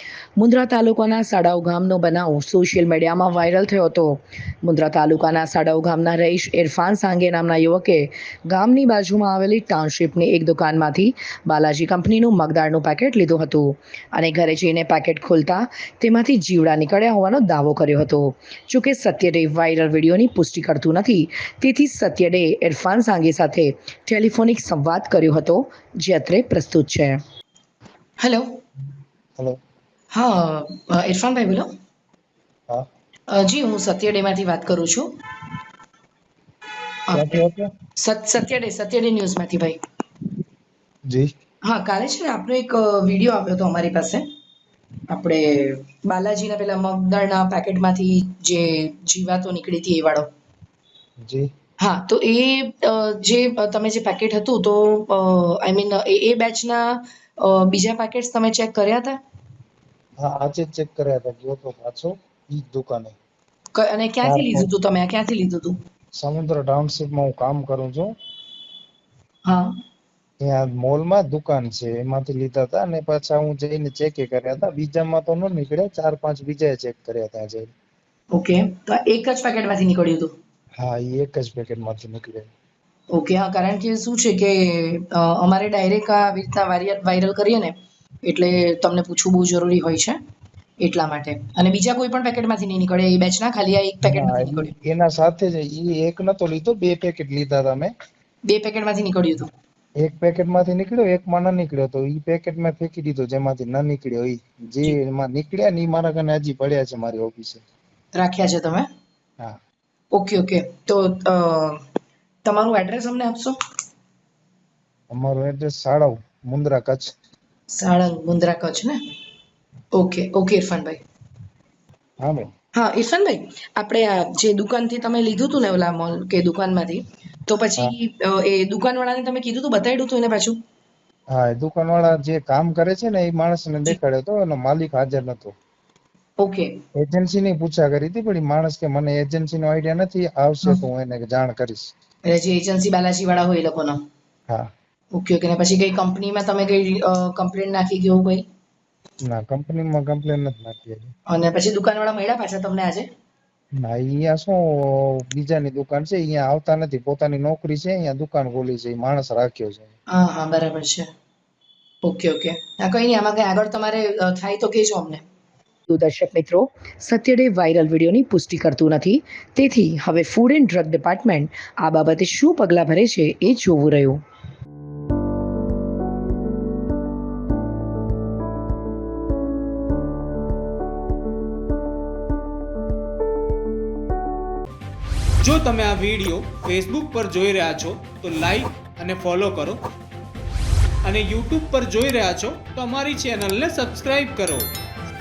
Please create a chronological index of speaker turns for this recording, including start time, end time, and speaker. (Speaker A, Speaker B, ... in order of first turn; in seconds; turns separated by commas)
Speaker A: 0.4-27.2, Speaker A: 28.2-28.5, Speaker A: 30.1-31.7, Speaker A: 33.3-35.1, Speaker A: 37.1-37.4, Speaker B: 37.1-37.7, Speaker A: 38.0-39.8, Speaker A: 41.6-44.2, Speaker A: 45.1-50.3, Speaker B: 51.2-51.5, Speaker A: 51.8-59.2, Speaker B: 60.2-63.2, Speaker A: 63.8-65.8, Speaker B: 64.2-64.7, Speaker B: 66.2-68.2, Speaker A: 69.5-69.7, Speaker B: 70.4-77.7, Speaker A: 78.3-80.3, Speaker B: 80.8-82.5, Speaker A: 83.1-90.2, Speaker A: 90.8-94.7, Speaker B: 94.0-97.9, Speaker A: 98.5-99.5, Speaker B: 100.0-107.6, Speaker A: 108.2-108.9, Speaker A: 110.1-111.8, Speaker A: 112.4-113.6, Speaker B: 115.1-117.1, Speaker A: 117.7-119.0, Speaker A: 120.0-121.0, Speaker B: 122.2-122.5, Speaker A: 122.7-130.6, Speaker B: 131.3-135.6, Speaker A: 136.4-136.8, Speaker B: 136.9-141.9, Speaker A: 142.2-144.0, Speaker A: 145.1-148.5, Speaker B: 149.2-151.1, Speaker A: 151.3-153.1, Speaker B: 153.8-159.9, Speaker A: 160.1-161.1, Speaker A: 162.0-165.2, Speaker A: 165.9-174.2, Speaker C: 185.4-189.8, Speaker C: 191.0-194.7